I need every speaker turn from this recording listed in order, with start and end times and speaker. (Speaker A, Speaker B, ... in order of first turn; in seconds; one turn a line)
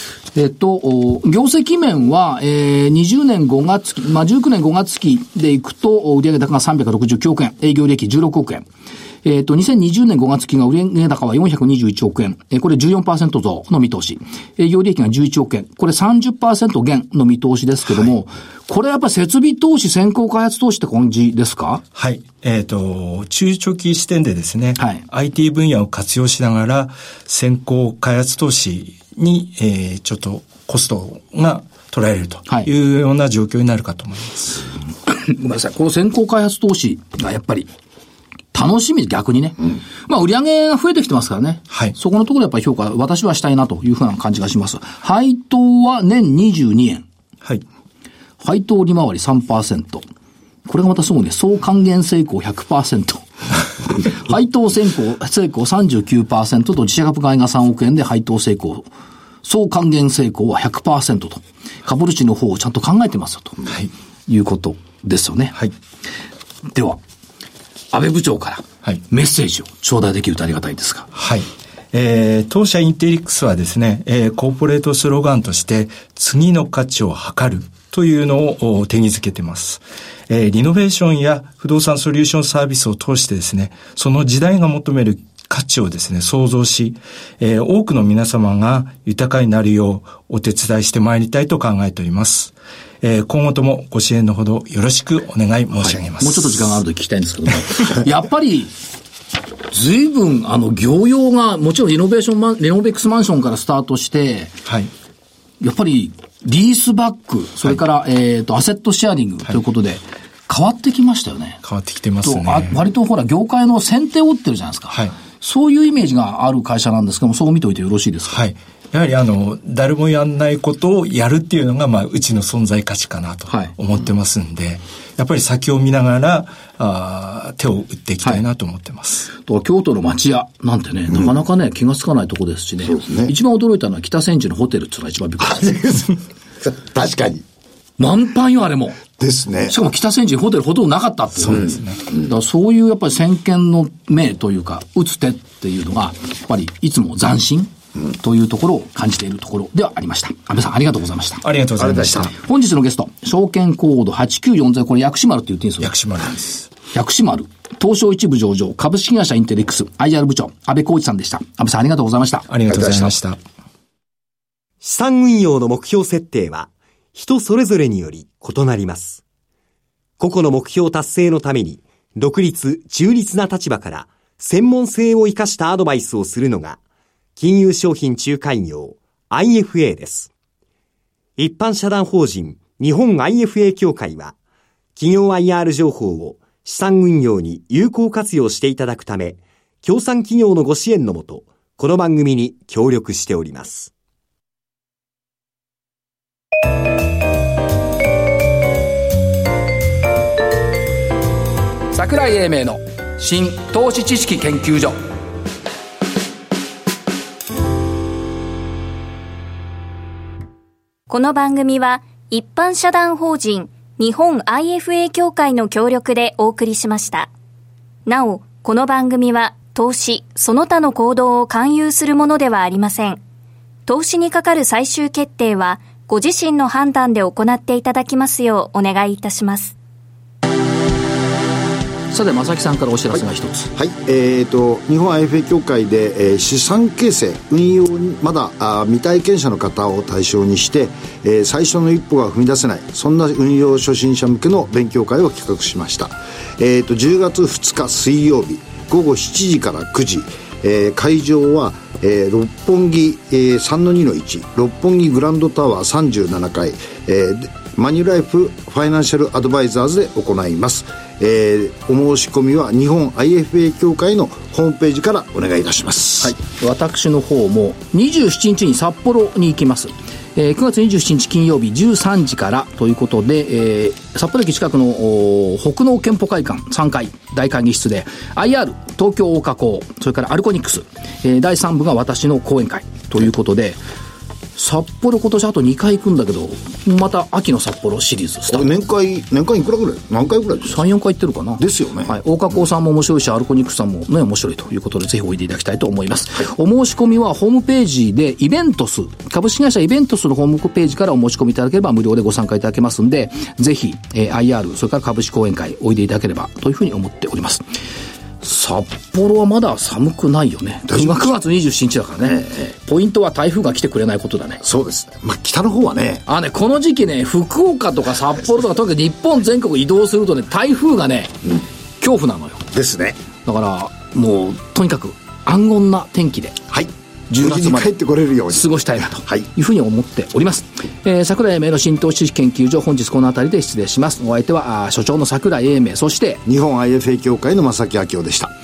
Speaker A: 0.3-8.7
Speaker A: 9.2-21.8
Speaker B: 21.9-34.6
Speaker A: 35.1-37.7
Speaker A: 38.5-47.0
Speaker A: 48.4-50.0
Speaker A: 50.6-53.2
Speaker A: 53.9-58.9
Speaker A: 59.4-63.6
Speaker A: 64.3-65.6
Speaker A: 66.7-67.0
Speaker A: 67.9-71.1
Speaker B: 71.1-96.7
Speaker A: 96.1-98.7
Speaker A: 99.7-104.6
Speaker A: 105.6-111.6
Speaker B: 111.6-112.8
Speaker A: 112.2-118.4
Speaker B: 114.9-115.2
Speaker B: 118.3-129.3
Speaker A: 129.4-136.0
Speaker C: 132.9-133.3
Speaker C: 135.4-137.4
Speaker A: 138.0-139.0
Speaker C: 139.2-139.7
Speaker A: 139.6-151.4
Speaker B: 141.4-142.0
Speaker B: 151.4-152.3
Speaker C: 151.8-152.1
Speaker A: 152.2-155.9
Speaker B: 155.8-156.7
Speaker A: 156.9-162.5
Speaker B: 162.5-163.4
Speaker C: 162.7-163.1
Speaker D: 164.8-169.2
Speaker D: 170.2-176.8
Speaker D: 177.4-180.3
Speaker D: 181.4-184.3
Speaker D: 184.9-193.9
Speaker A: 201.9-205.0
Speaker E: 211.1-217.3
Speaker E: 218.1-223.2
Speaker E: 223.9-229.7
Speaker A: 232.1-233.7
Speaker C: 233.7-266.3
Speaker A: 266.2-283.8
Speaker A: 284.6-288.7
Speaker C: 288.5-290.8
Speaker A: 290.6-307.6
Speaker C: 291.6-292.1
Speaker A: 308.4-314.6
Speaker C: 310.9-311.3
Speaker C: 314.6-316.2
Speaker A: 316.3-322.7
Speaker C: 322.7-323.2
Speaker A: 323.4-326.6
Speaker C: 326.7-329.4
Speaker A: 327.3-327.9
Speaker A: 328.5-336.4
Speaker C: 336.4-338.5